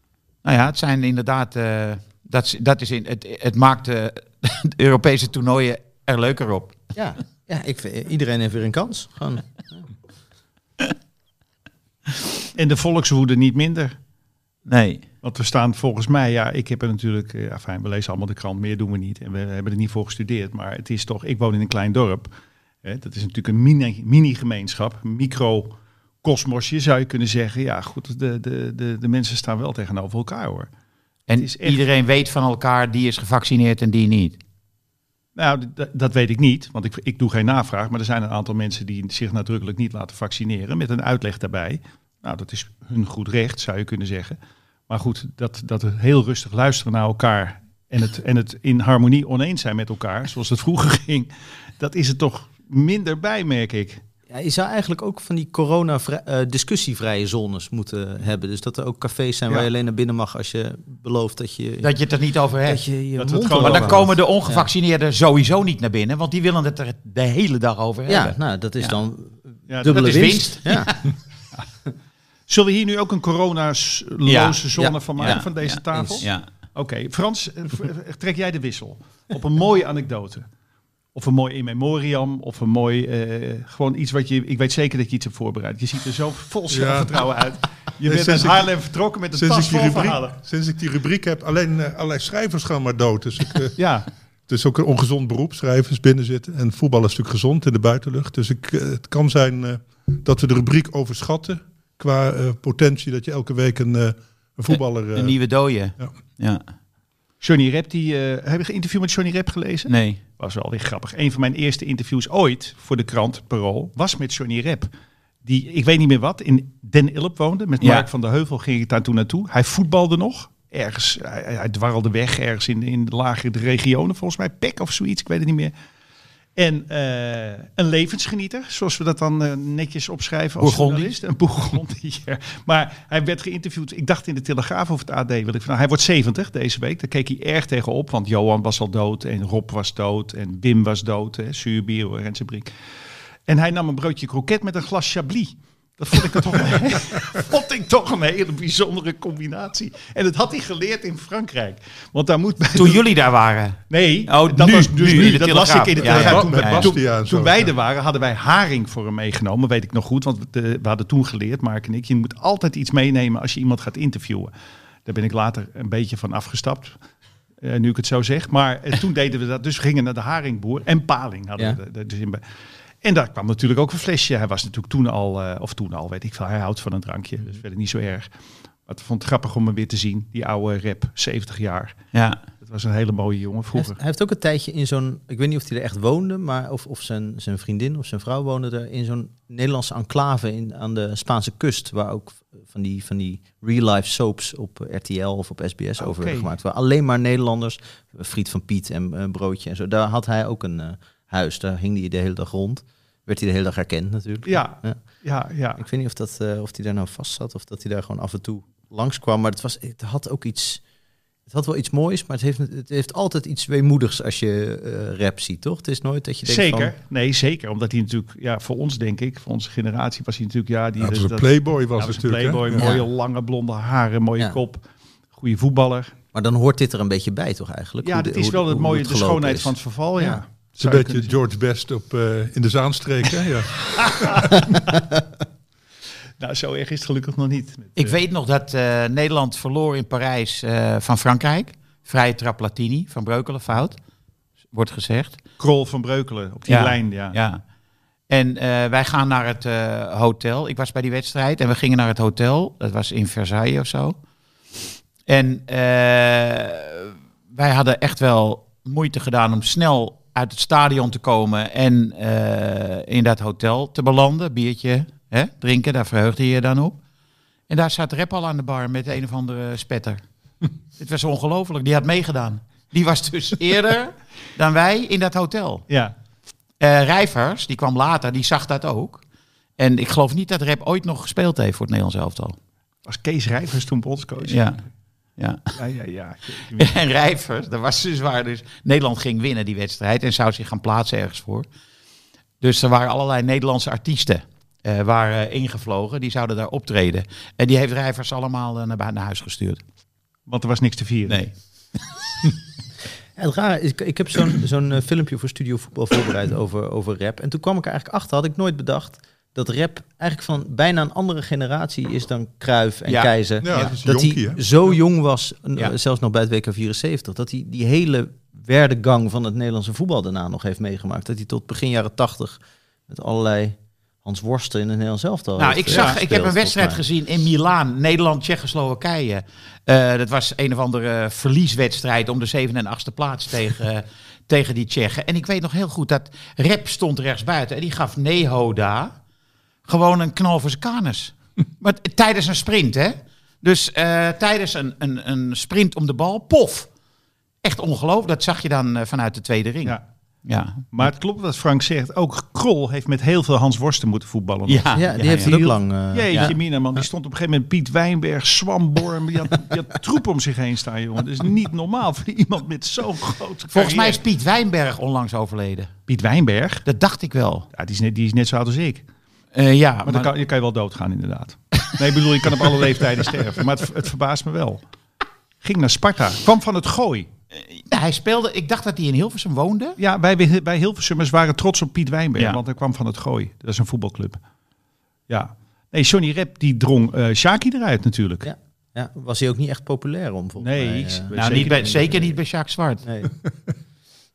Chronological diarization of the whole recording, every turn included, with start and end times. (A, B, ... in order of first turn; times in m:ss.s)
0:00.4-0:06.8 A
0:06.9-0:09.9 B
0:12.5-0:13.9 C
0:14.7-0:15.0 A
0:15.2-0:22.3 C
0:22.8-0:30.7 C
0:31.3-0:34.4 A
0:31.4-0:31.8 C
0:35.4-0:44.4 C
0:44.9-0:54.0 C
0:54.3-1:01.9 B
1:01.8-1:02.8 A
1:02.6-1:04.7 B
1:03.2-1:04.1 C
1:03.6-1:08.9 A
1:08.1-1:11.0 B
1:09.7-1:10.4 C
1:09.9-1:11.1 A
1:12.5-1:20.4 C
1:14.2-1:14.6 A
1:14.7-1:16.2 B
1:15.2-1:16.5 A
1:21.1-1:30.4 C
1:26.7-1:27.3 D
1:28.0-1:28.7 D
1:29.3-1:33.8 D
1:33.8-1:34.1 C
1:34.5-1:45.4 D
1:44.7-1:46.6 A
1:47.4-1:54.9 C
1:49.9-1:50.2 A
1:55.4-2:05.7 C
1:57.8-1:58.1 A
2:06.6-2:22.7 C
2:10.6-2:11.1 A
2:23.5-2:33.0 C
2:32.7-2:36.9 A
2:33.9-2:44.5 C
2:36.0-2:37.7 D
2:45.0-2:47.0 C
2:47.6-2:52.4 C
2:53.0-2:58.3 C
2:58.9-3:02.0 C
3:02.1-3:02.4 A
3:02.6-3:04.0 C
3:03.7-3:25.0 B
3:16.0-3:16.5 C
3:24.4-3:25.8 C
3:25.8-3:30.8 B
3:31.5-3:36.9 B
3:36.4-3:44.8 C
3:41.0-3:42.9 D
3:42.7-3:43.0 B
3:45.3-3:46.1 C
3:46.3-3:50.4 B
3:48.0-3:51.3 C
3:50.8-3:54.5 D
3:53.9-3:54.9 C
3:56.4-3:58.2 C
3:58.0-4:04.0 A
4:04.7-4:05.4 A
4:05.6-4:07.4 C
4:06.7-4:07.6 A
4:08.3-4:14.2 A
4:15.3-4:27.0 A
4:27.7-4:30.2 A
4:31.0-4:35.8 A
4:35.9-4:36.1 C
4:36.8-4:39.2 A
4:39.8-4:42.6 A
4:43.0-4:44.6 C
4:44.4-4:44.8 A
4:45.7-4:46.9 C
4:46.8-4:51.6 A
4:52.6-4:59.8 A
5:00.5-5:01.4 C
5:01.3-5:01.5 A
5:03.4-5:27.0 B
5:13.1-5:13.8 A
5:13.6-5:14.6 D
5:25.6-5:39.1 A
5:25.9-5:26.2 C
5:39.8-5:46.9 A
5:47.6-5:50.9 A
5:50.9-6:04.2 C
5:54.7-5:55.6 A
5:54.9-5:56.5 B
5:56.3-5:56.5 A
6:03.7-6:05.9 A
6:06.1-6:06.8 C
6:06.8-6:07.7 A
6:07.7-6:09.0 C
6:09.5-6:10.3 A
6:10.0-6:14.8 C
6:15.6-6:17.3 C
6:17.7-6:20.0 A
6:20.0-6:24.4 C
6:25.3-6:28.5 C
6:28.4-6:32.0 B
6:30.6-6:32.2 C
6:31.3-6:33.0 A
6:33.0-6:33.3 B